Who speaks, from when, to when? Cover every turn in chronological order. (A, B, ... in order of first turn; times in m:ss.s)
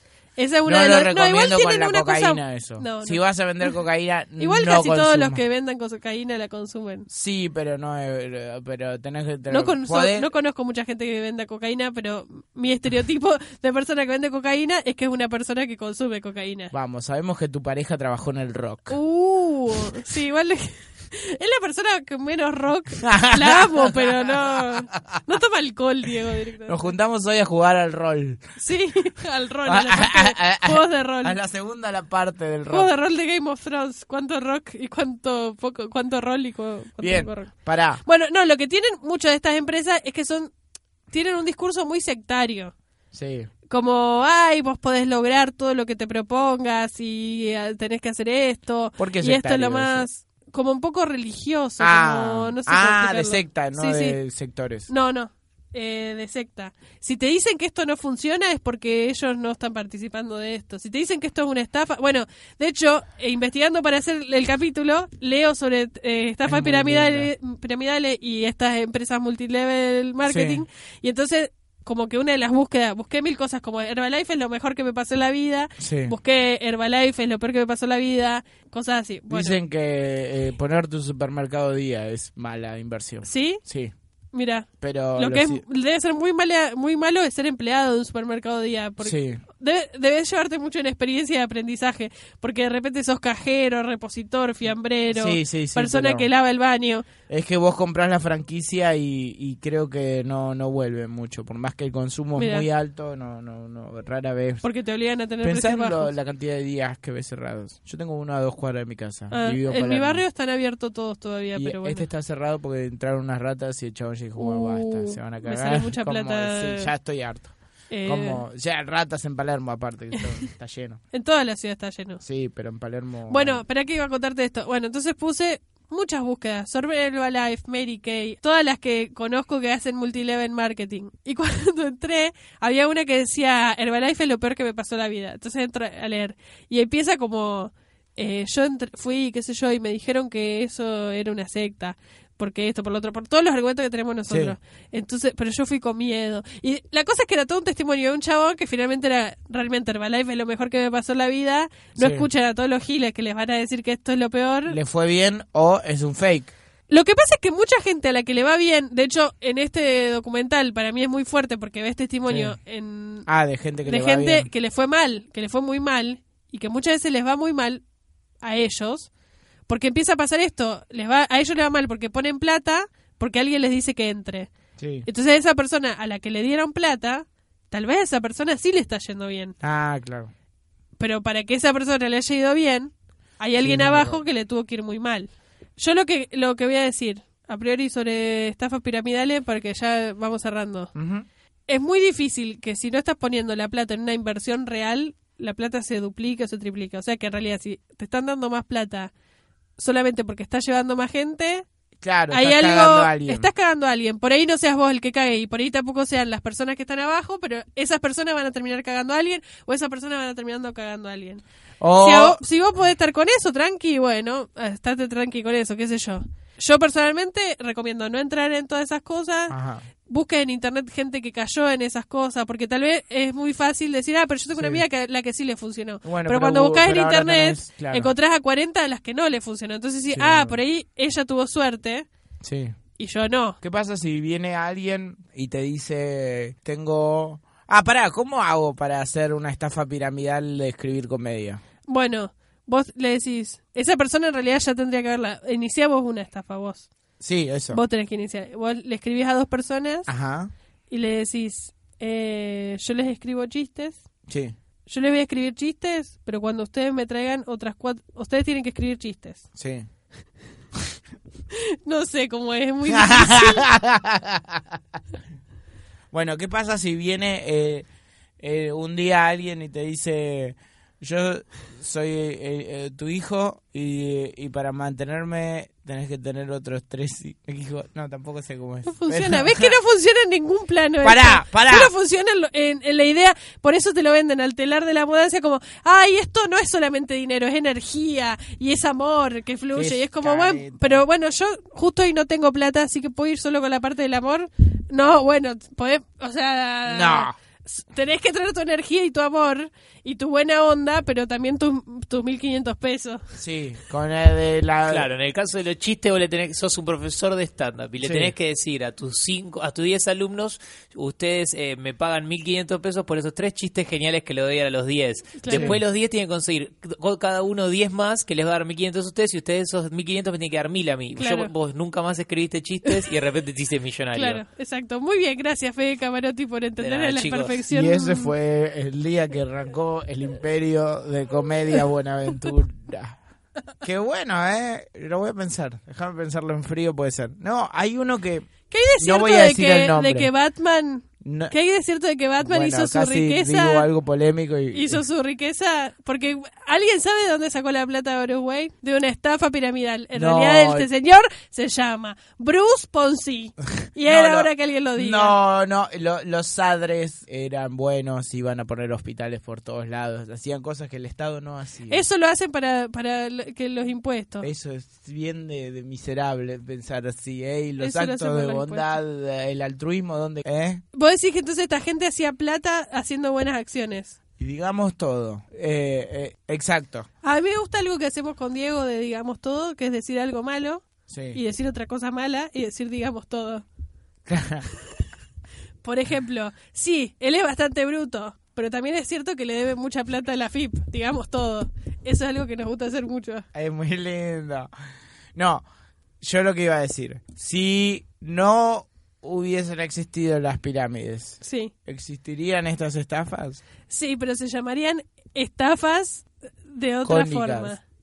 0:00.4-0:03.7 A
0:00.6-0:05.4 B
0:04.4-0:07.1 A
0:07.1-0:10.3 B
0:09.5-0:16.7 A
0:16.7-0:19.0 B
0:18.9-0:26.8 A
0:23.0-0:25.2 B
0:26.6-0:28.4 B
0:28.6-0:31.4 A
0:29.6-0:32.9 B
0:32.7-0:37.5 A
0:37.0-0:38.0 B
0:38.0-0:40.5 A
0:41.1-0:42.7 A
0:43.1-0:43.5 B
0:43.7-0:54.2 A
0:49.0-0:50.1 B
0:51.8-0:54.9 B
0:54.9-1:19.6 A
1:06.4-1:07.3 B
1:10.2-1:10.6 B
1:15.8-1:16.1 B
1:19.3-1:23.9 B
1:23.2-1:23.6 A
1:24.3-1:37.1 A
1:24.8-1:25.6 B
1:29.0-1:29.4 B
1:35.1-1:36.3 B
1:37.3-1:44.6 B
1:42.4-1:42.7 A
1:44.6-1:46.1 A
1:45.4-1:50.2 B
1:49.3-1:52.1 A
1:51.5-1:57.5 B
1:54.4-1:56.9 A
1:57.9-1:58.4 A
1:58.0-2:01.0 B
2:01.1-2:02.2 A
2:02.2-2:03.6 B
2:03.3-2:34.8 A
2:24.3-2:24.6 B
2:32.0-2:32.3 B
2:34.7-2:36.5 B
2:36.9-2:43.3 A
2:42.3-2:42.6 B
2:43.2-2:44.5 B
2:43.8-2:47.8 A
2:48.4-2:49.1 A
2:49.7-2:54.5 A
2:54.8-2:55.1 B
2:55.0-2:59.5 A
2:59.6-3:00.3 B
3:01.0-3:10.9 A
3:03.6-3:04.2 B
3:10.9-3:11.2 B
3:11.7-3:19.1 A
3:19.8-3:21.6 A
3:22.0-3:23.5 B
3:22.3-3:31.4 A
3:31.8-3:32.4 B
3:32.0-3:39.5 A
3:39.5-3:39.8 B
3:40.0-3:52.1 A
3:44.5-3:44.8 B
3:46.0-3:48.1 B
3:50.1-3:50.6 B
3:52.4-3:52.8 B
3:53.0-3:53.6 A
3:53.6-4:01.6 B
4:01.9-4:06.9 A
4:07.2-4:07.8 B
4:07.7-4:10.1 A
4:10.1-4:10.5 B
4:10.9-4:14.0 A
4:14.3-4:14.5 B
4:14.9-4:19.4 A
4:19.6-4:19.9 B
4:21.5-4:23.7 A
4:22.8-4:24.8 B
4:26.1-4:27.9 B
4:28.4-4:39.7 B
4:38.8-5:03.2 A
4:41.0-4:41.9 B
4:49.7-4:51.0 B
4:56.8-4:57.3 B
5:03.3-5:05.1 B
5:04.9-5:24.4 C
5:08.0-5:08.3 B
5:15.4-5:15.7 A
5:15.5-5:15.8 B
5:21.2-5:21.5 A
5:24.1-5:28.3 A
5:26.8-5:27.6 C
5:27.7-5:33.2 B
5:33.8-5:40.3 B
5:38.7-5:43.9 A
5:41.2-5:41.5 B
5:42.4-5:45.0 B
5:44.7-5:55.4 A
5:50.1-5:50.9 B
5:54.0-6:02.0 B
6:01.9-6:04.5 A
6:04.4-6:10.8 B
6:07.8-6:08.9 A
6:10.9-6:14.2 A
6:14.4-6:17.1 B
6:17.2-6:23.6 A
6:21.1-6:21.4 B
6:24.3-6:24.7 B
6:25.8-6:33.4 A
6:33.5-6:34.7 B
6:35.3-6:35.6 B
6:36.2-6:43.6 B
6:41.4-6:41.7 A
6:43.9-6:47.8 A
6:47.0-6:47.8 B